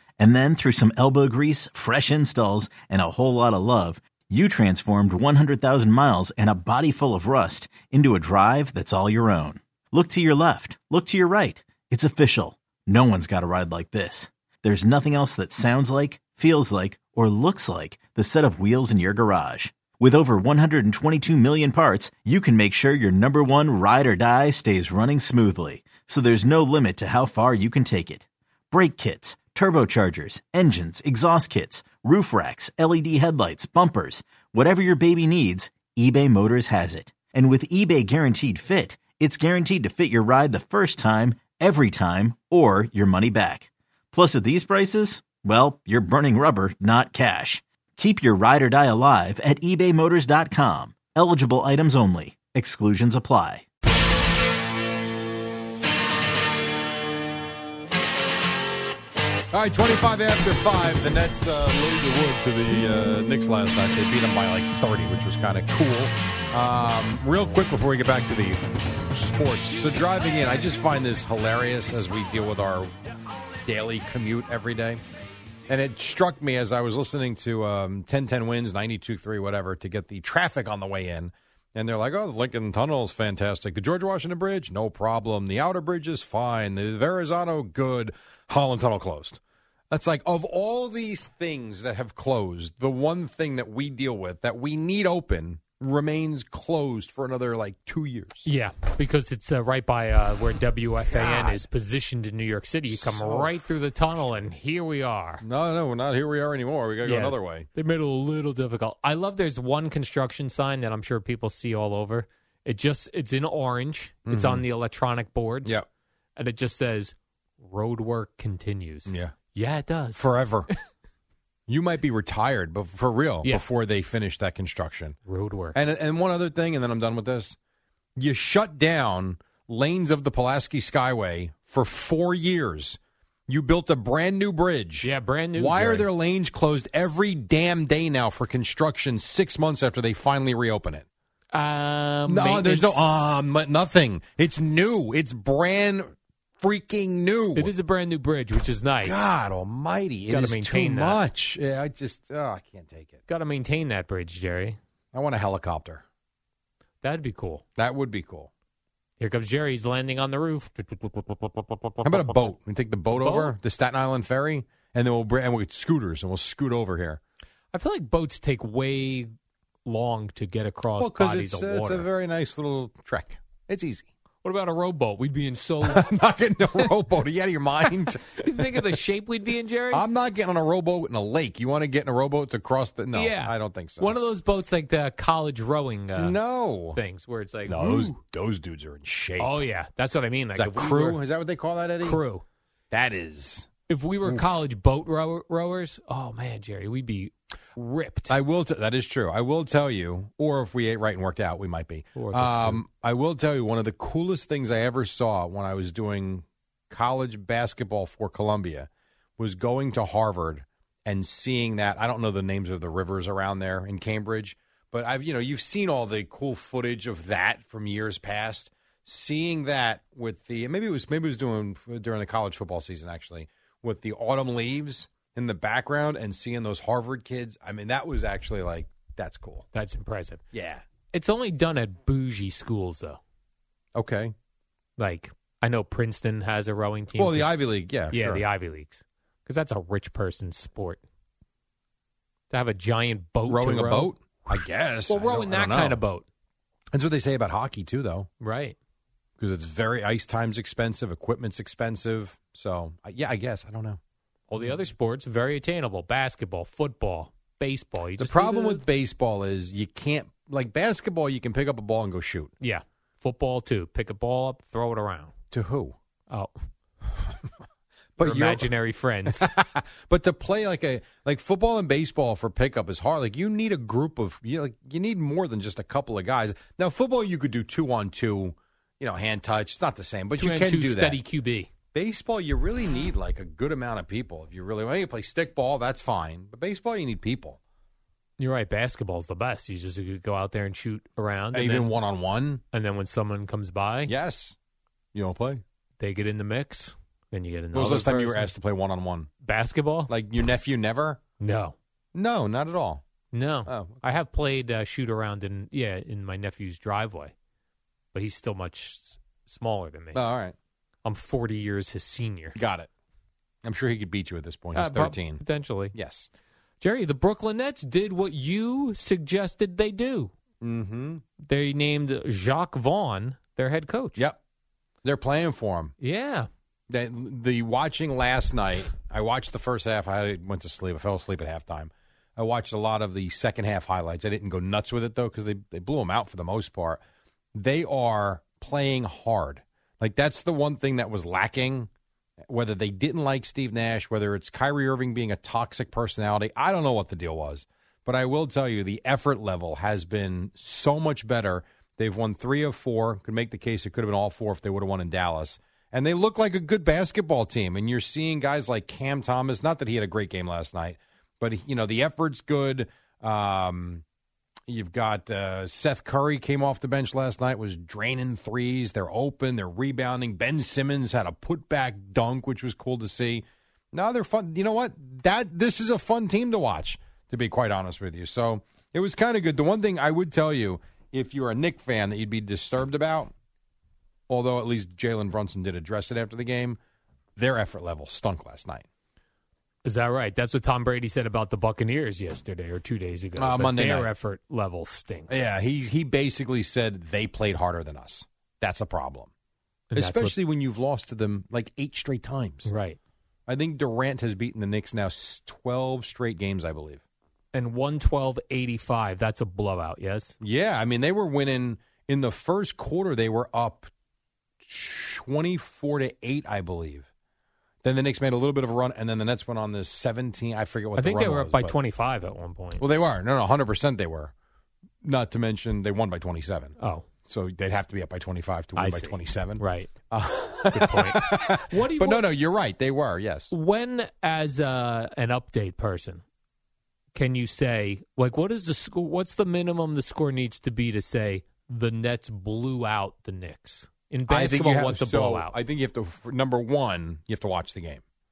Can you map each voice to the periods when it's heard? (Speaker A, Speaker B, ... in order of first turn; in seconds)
Speaker A: 0.2-53.6
Speaker B: 59.5-72.9, 73.7-75.0, 75.7-89.4, 89.9-98.5, 103.2-103.5, 105.4-107.7, 114.3-114.6, 119.1-119.3, 120.2-120.7, 121.7-125.2, 125.7-127.5, 128.2-135.1, 135.6-141.1, 142.3-147.7, 149.1-153.2, 155.1-156.0, 157.8-158.5, 162.1-167.2, 171.0-174.1, 175.9-178.9, 180.0-184.1, 186.2-187.0, 187.7-189.5, 190.6-192.1, 192.9-193.7, 198.3-229.6, 230.5-230.8, 233.9-234.3, 237.2-238.4, 243.5-245.9, 246.9-248.3, 249.4-254.0, 258.2-262.5, 265.5-266.0, 268.2-268.6, 269.3-281.2, 281.9-287.6, 291.6-292.6, 294.1-294.6, 295.1-295.6, 297.7-299.3, 300.1-301.2, 302.1-303.0, 303.7-304.0, 310.1-310.5, 312.6-312.9, 313.6-315.4, 315.9-316.3, 320.6-321.2, 325.0-325.9, 326.9-337.0, 337.5-341.9, 342.5-364.0, 364.7-383.3, 384.3-386.8, 387.4-388.8, 393.4-394.1, 395.3-399.3, 400.0-402.7, 403.5-407.0, 410.4-413.9, 414.6-417.1, 417.8-421.7, 422.8-424.3, 425.0-426.8, 427.3-433.5, 444.4-448.0
Speaker C: 98.4-105.5, 107.0-115.8, 116.3-120.8, 123.4-123.7, 125.2-125.8, 135.0-136.1, 141.5-143.1, 147.6-149.2, 150.3-151.2, 153.3-154.8, 157.0-157.6, 159.2-162.5, 163.1-163.6, 167.7-169.3, 169.8-172.1, 174.4-176.9, 177.8-180.1, 183.1-186.4, 186.9-188.2, 189.4-191.2, 192.0-192.4, 193.9-198.4, 202.1-202.8, 229.7-230.4, 231.1-233.2, 235.0-241.0, 242.5-246.2, 248.4-248.8, 254.5-258.8, 262.6-265.3, 266.3-266.6, 268.2-269.5, 280.4-281.7, 288.4-291.9, 292.7-294.1, 296.0-298.5, 299.4-300.1, 301.4-301.8, 303.3-307.3, 308.1-310.2, 311.0-312.6, 314.7-315.9, 316.8-320.3, 321.4-324.2, 326.0-326.5, 389.8-395.4, 399.9-400.4, 402.6-403.0, 407.5-410.3, 420.9-422.9, 426.8-427.1, 428.7-429.9, 430.7-432.2, 433.5-436.2, 437.1-445.6